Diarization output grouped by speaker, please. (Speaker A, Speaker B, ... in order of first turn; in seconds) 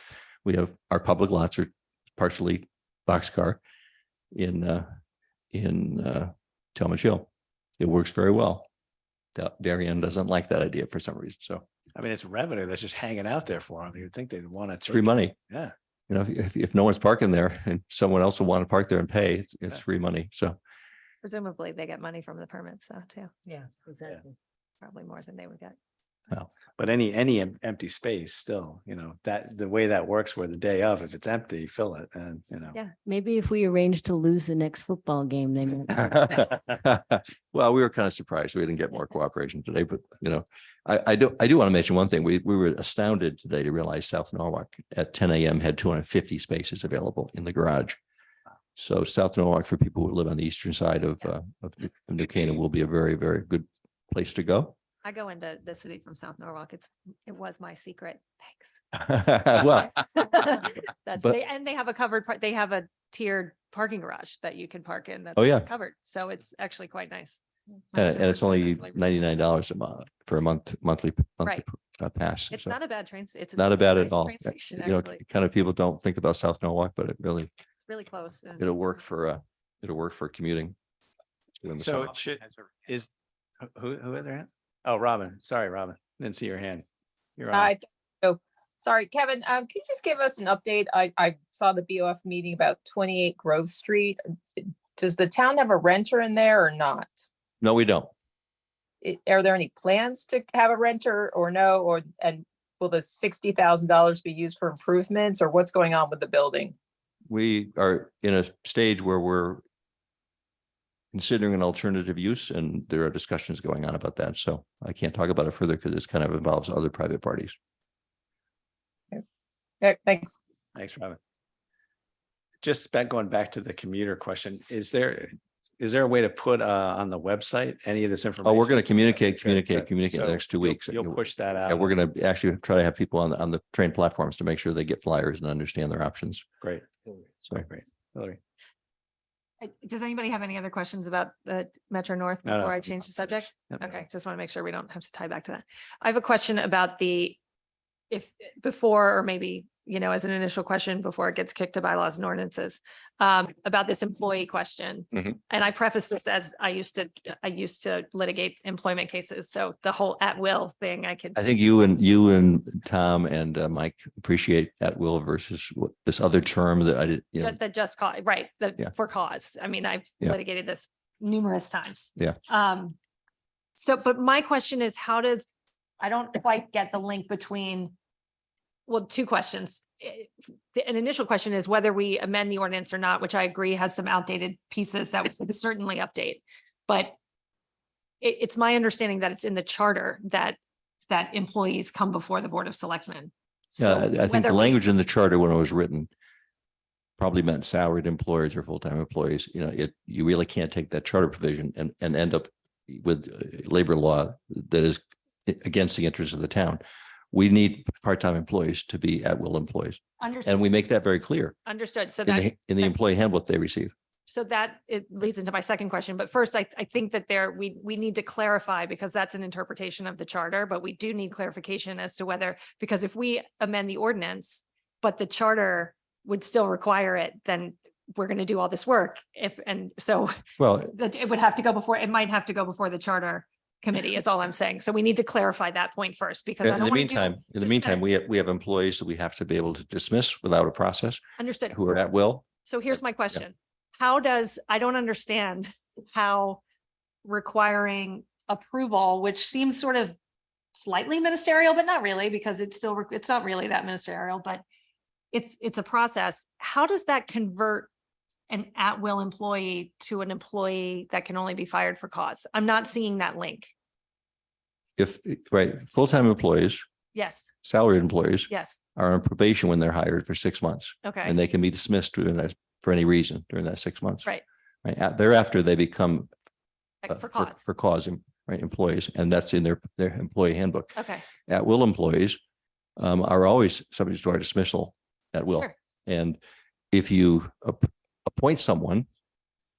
Speaker A: 0.4-3.6, 4.3-4.9, 5.5-7.3, 7.8-8.7, 9.3-11.6, 14.8-15.3, 16.1-20.6, 36.0-48.0, 48.8-54.8, 59.0-59.9, 65.4-65.7, 67.9-72.7, 73.5-77.5, 78.6-80.8, 81.6-82.1, 97.6-98.1, 107.3-109.6, 111.1-117.5, 128.4-136.4, 161.3-167.6, 193.8-196.1, 197.2-211.5, 212.2-213.9, 230.6-230.9, 236.6-241.2, 241.7-242.4, 265.0-266.8, 267.6-274.3, 274.8-276.3, 277.1-280.9, 281.4-282.4, 283.0-286.4, 286.9-289.1
Speaker B: 11.9-15.7, 26.8-32.8, 81.8-83.1, 83.6-86.8, 87.4-87.7, 120.7-121.2, 122.6-131.9, 136.6-136.9, 137.4-138.4, 142.4-143.9
Speaker C: 21.2-23.6, 24.8-25.8, 55.0-59.0, 59.5-67.4, 67.9-69.4, 72.5-75.2, 77.9-78.7, 139.6-147.4, 148.1-161.3, 167.4-172.9, 173.8-175.4, 176.0-177.9, 178.9-187.1, 188.2-190.6, 191.1-194.8, 210.2-210.6, 211.7-212.9, 214.3-230.4, 230.9-238.0, 241.4-241.8, 242.6-246.6, 247.2-250.2, 250.7-254.6, 255.3-257.9, 258.5-263.7, 267.1-267.5, 268.5-268.8, 271.0-271.4, 277.0-277.6, 280.9-281.2
Speaker D: 33.0-36.0
Speaker E: 87.5-97.2, 99.0-106.7, 119.8-120.3